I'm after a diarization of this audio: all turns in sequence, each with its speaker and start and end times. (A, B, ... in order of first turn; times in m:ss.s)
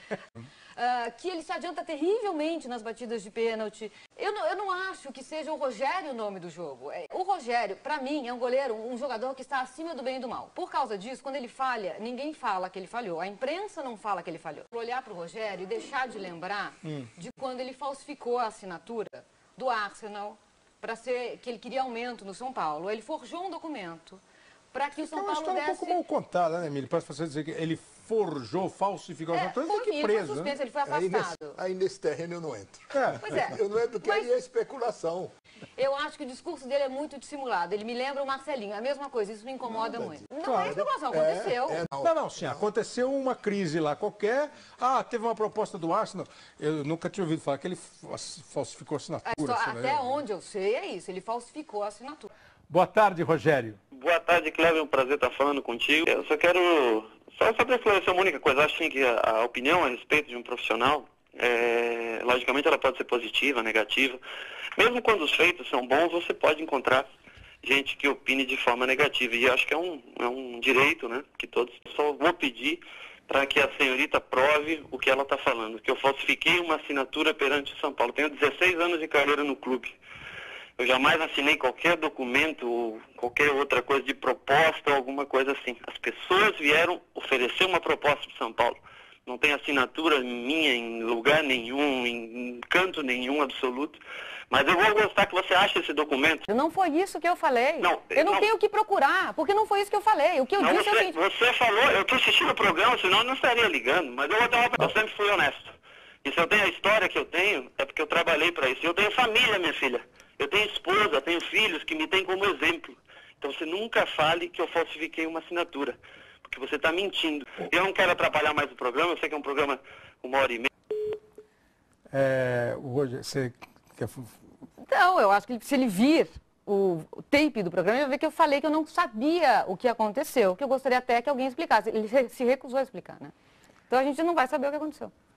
0:00.8-0:24.2 A
0:24.7-0:26.0 A
0:25.0-0:30.5 B
0:29.3-0:31.6 A
0:30.9-0:35.3 C
0:32.9-0:33.2 B
0:33.2-0:34.3 A
0:35.8-0:41.8 A
0:39.7-0:42.1 C
0:40.4-0:40.8 B
0:42.0-0:50.2 B
0:49.2-0:52.3 A
0:52.7-0:53.8 B
0:53.9-1:04.2 D
1:04.8-1:07.1 D
1:07.6-1:20.0 D
1:20.8-1:36.5 D
1:36.5-1:41.2 A
1:37.8-1:38.5 D
1:40.6-2:00.7 D
2:02.1-2:04.3 B
2:04.8-2:13.3 A
2:13.9-2:15.1 A